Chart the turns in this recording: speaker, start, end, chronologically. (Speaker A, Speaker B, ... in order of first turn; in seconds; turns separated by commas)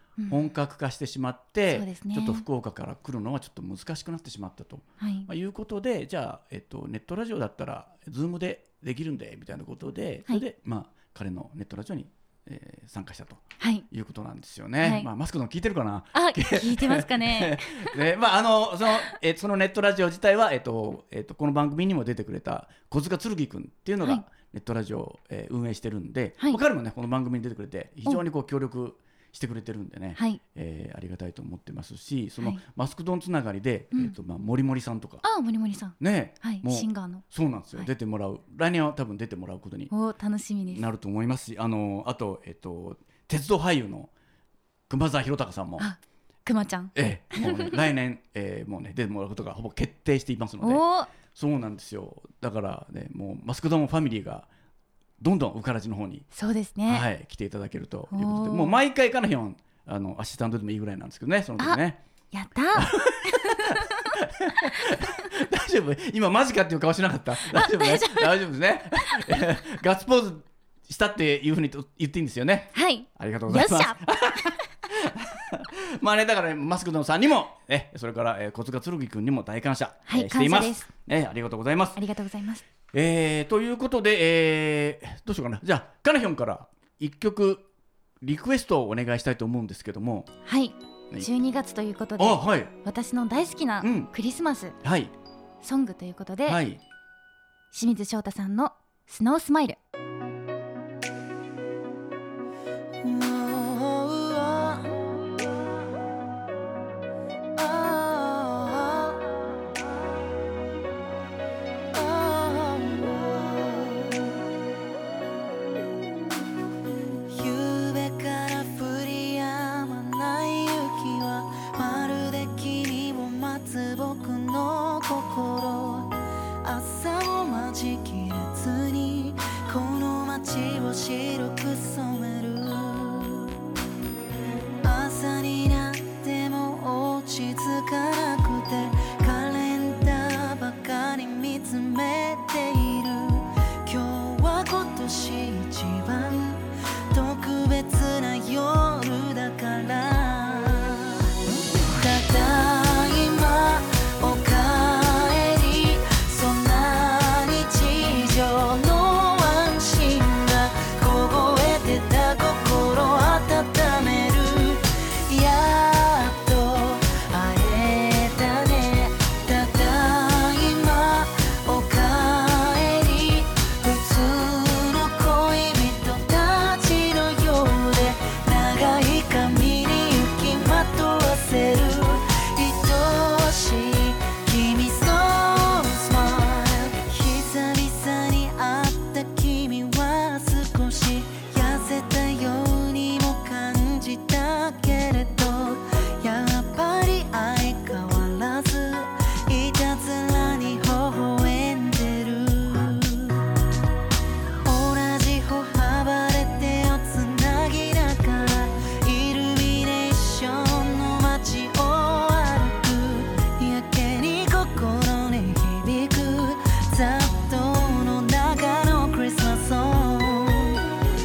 Speaker A: 0.2-0.5, Speaker B: 0.3-35.2, Speaker A: 1.7-2.4, Speaker A: 5.0-5.3, Speaker A: 13.6-13.8, Speaker A: 14.8-15.1, Speaker A: 16.1-18.0, Speaker A: 30.1-30.4, Speaker A: 35.2-37.2, Speaker B: 36.0-39.9, Speaker A: 39.9-40.9, Speaker B: 40.7-44.1, Speaker B: 44.9-45.9, Speaker A: 45.8-47.9, Speaker B: 46.9-54.5, Speaker A: 50.6-51.1, Speaker B: 55.2-56.3, Speaker A: 56.3-57.1, Speaker B: 56.9-62.0, Speaker A: 58.1-58.8, Speaker A: 62.3-64.0, Speaker B: 62.7-82.0, Speaker A: 67.5-68.3, Speaker A: 72.7-74.0, Speaker A: 80.1-80.9, Speaker A: 82.0-82.6, Speaker B: 82.9-87.6, Speaker B: 88.2-90.3, Speaker A: 90.4-94.8, Speaker B: 92.2-92.7, Speaker B: 93.8-94.1, Speaker B: 94.8-95.1, Speaker A: 95.6-96.6, Speaker B: 96.5-96.8, Speaker A: 97.7-99.8, Speaker C: 103.4-104.5, Speaker C: 107.8-108.5, Speaker C: 112.0-113.2, Speaker C: 117.3-126.1, Speaker C: 126.6-133.5, Speaker C: 134.8-151.2, Speaker C: 152.0-203.4, Speaker C: 204.6-220.8